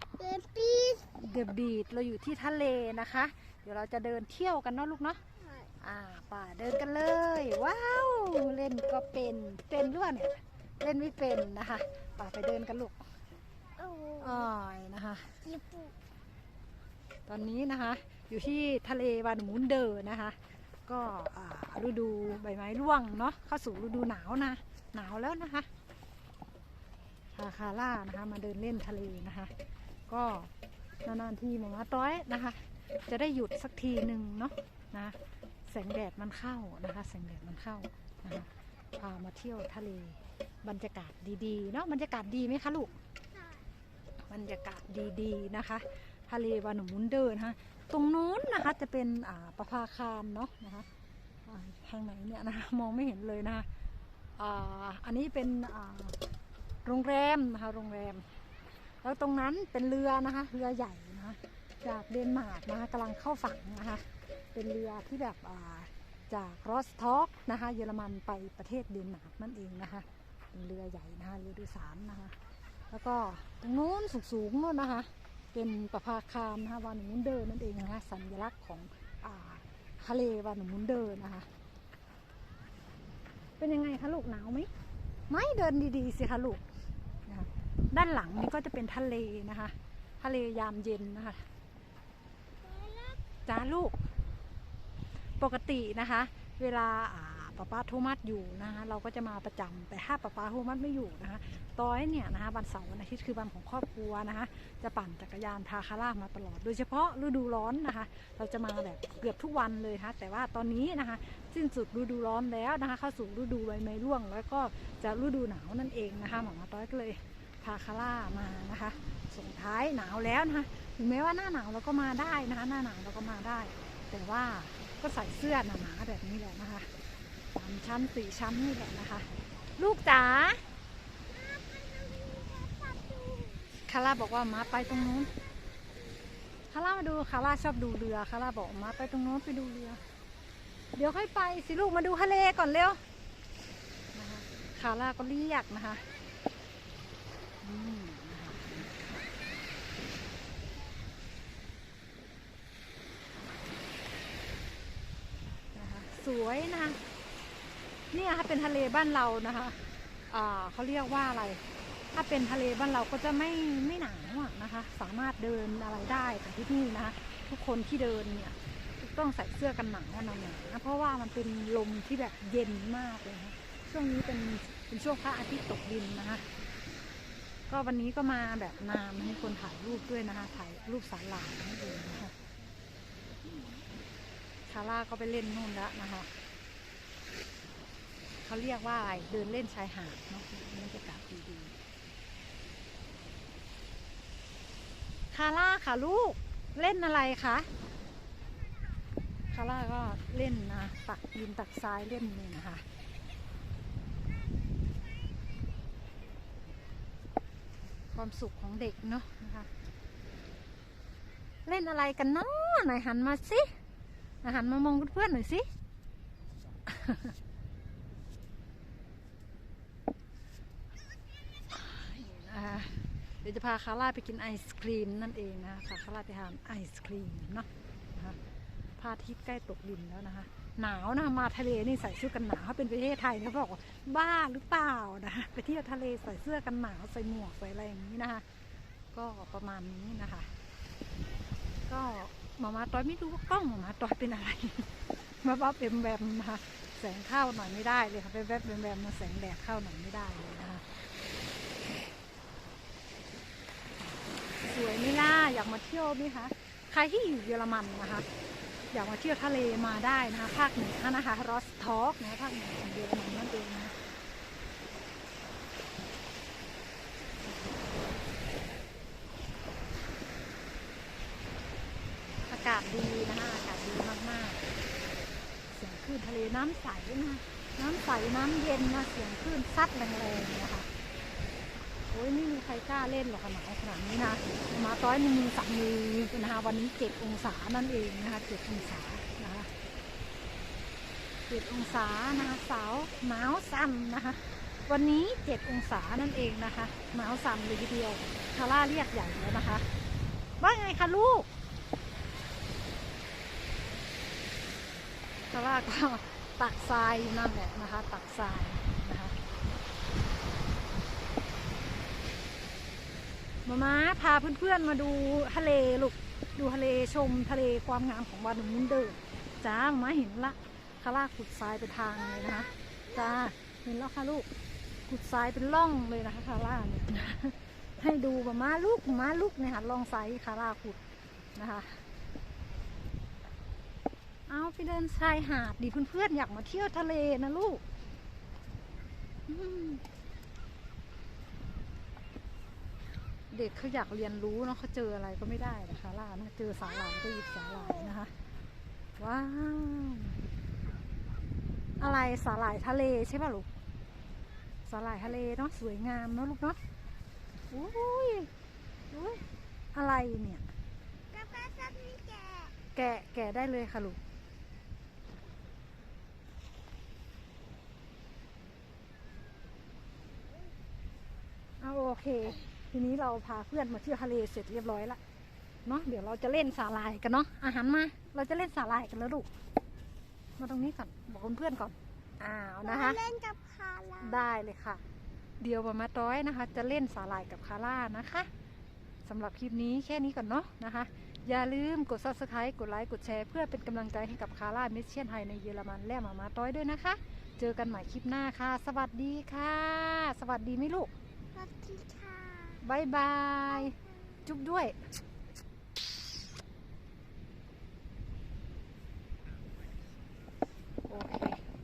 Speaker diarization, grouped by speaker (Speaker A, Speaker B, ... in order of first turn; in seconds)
Speaker A: 0.1-1.1, 13.8-14.4, 15.4-15.9, 92.6-93.2, 131.3-133.8, 361.3-362.7, 382.8-384.4, 401.5-402.8
Speaker B: 1.1-5.2, 5.8-12.9, 14.2-15.4, 17.3-20.4, 20.9-25.7, 27.3-29.5, 30.1-30.5, 31.0-35.2, 35.7-43.0, 44.3-50.9, 51.5-53.6, 54.4-56.2, 56.8-58.2, 59.0-72.3, 72.9-81.5, 83.6-84.7, 85.3-86.6, 87.2-91.4, 93.5-94.0, 95.4-126.9, 127.5-130.6, 133.8-135.3, 136.7-140.0, 140.9-143.0, 144.1-146.0, 147.6-149.3, 155.7-157.0, 158.1-176.4, 177.7-182.3, 184.7-186.3, 188.4-191.7, 195.3-197.7, 199.5-202.8, 208.1-209.7, 211.6-213.8, 214.4-215.7, 216.8-217.3, 221.7-228.4, 229.0-238.4, 239.1-240.5, 241.8-250.9, 254.6-258.3, 258.9-263.9, 272.4-274.6, 275.7-280.9, 282.1-289.7, 291.5-299.9, 300.6-301.5, 305.5-309.4, 313.6-324.5, 325.1-331.0, 331.6-332.0, 334.5-337.8, 339.5-340.0, 343.5-348.3, 349.2-350.4, 352.0-353.7, 354.9-356.8, 357.7-358.5, 359.1-360.6, 362.9-364.2, 371.8-375.2, 375.9-379.5, 380.6-383.2, 384.2-385.0, 385.6-388.5, 389.2-401.1, 402.8-404.9, 411.1-411.6